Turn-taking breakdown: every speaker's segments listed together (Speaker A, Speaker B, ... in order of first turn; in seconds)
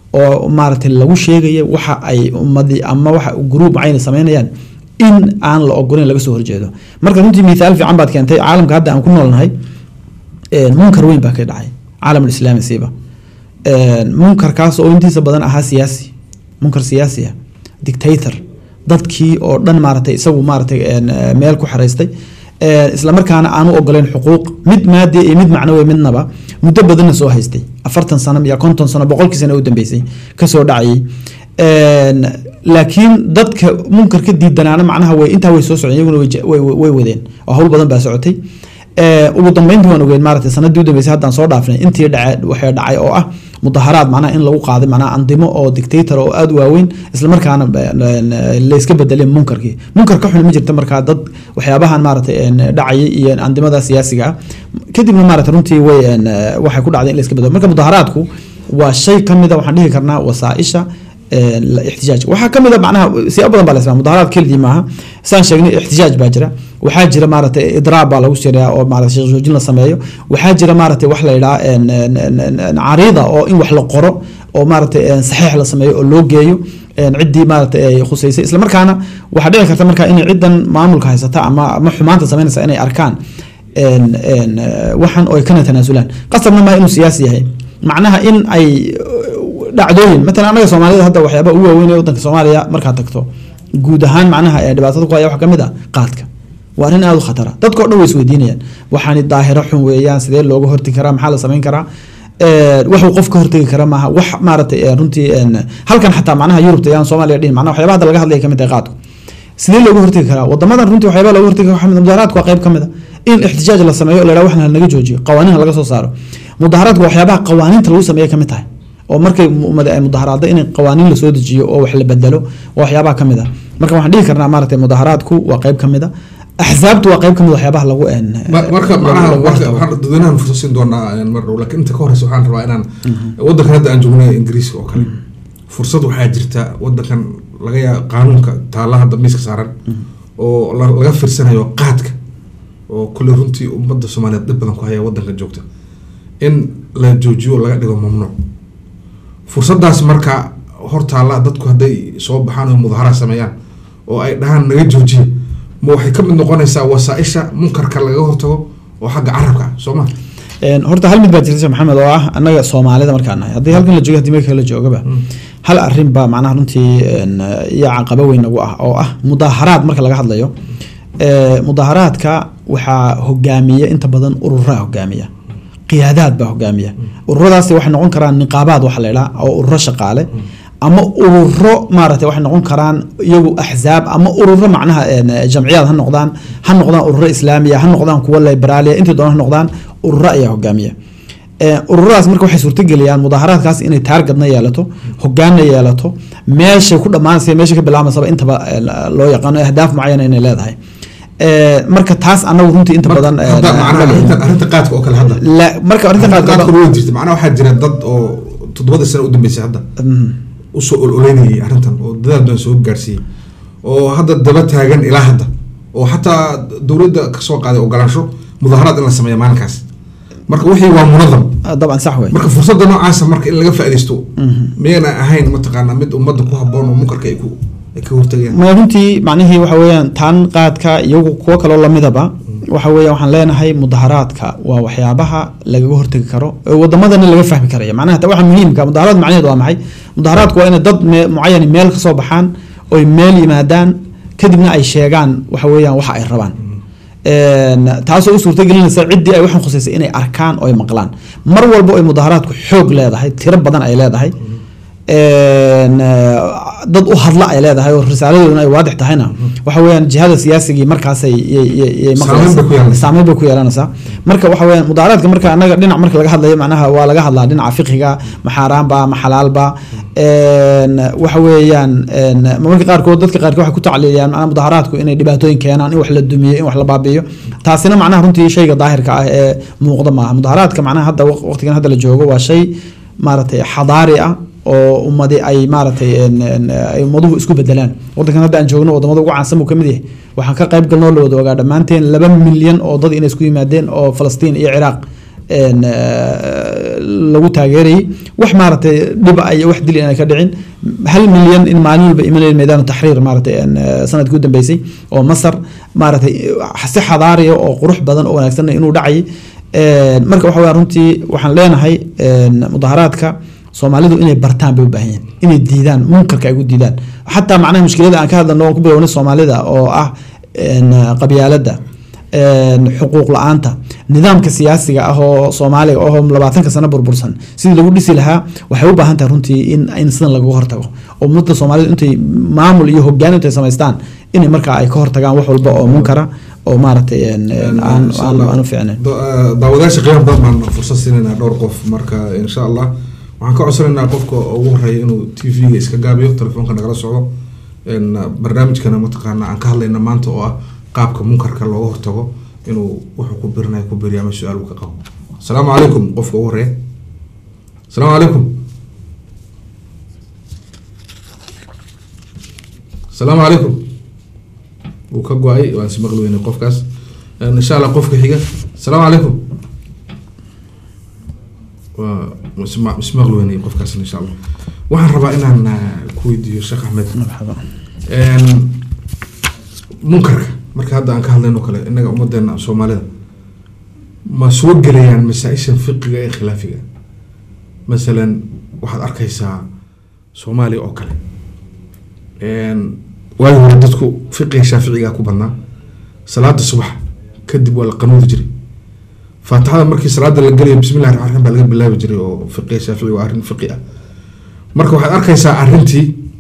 Speaker A: 0.1-9.5, 10.5-12.9, 13.7-22.1, 22.6-31.1, 31.6-38.4, 39.0-54.4, 54.9-83.2, 83.8-93.3, 93.8-101.9, 102.4-108.9, 109.6-129.8, 160.6-165.1, 165.6-170.5, 171.2-175.3, 175.9-180.3, 180.8-190.9, 191.6-200.8, 201.4-204.4, 205.4-206.7, 210.0-210.4, 221.7-222.4, 224.4-224.7, 228.5-246.6, 247.3-254.3, 255.1-321.8, 322.3-339.0, 377.1-377.6
Speaker B: 128.5-132.9, 133.4-135.1, 135.7-139.7, 140.4-142.2, 142.9-145.6, 146.4-148.4, 149.5-153.5, 154.1-160.1, 203.1-205.4, 206.2-209.8, 210.7-213.2, 213.8-219.9, 220.5-221.6, 222.3-228.6, 262.2-263.1, 337.6-347.3, 347.9-356.8, 357.9-358.5, 363.1-363.8, 365.1-366.9, 367.4-369.4, 371.9-374.4, 374.9-377.1, 378.1-378.7, 380.0-383.1, 384.3-386.9, 387.9-389.6, 390.4-391.2, 392.4-395.5, 396.3-398.5, 399.4-403.8, 404.8-406.2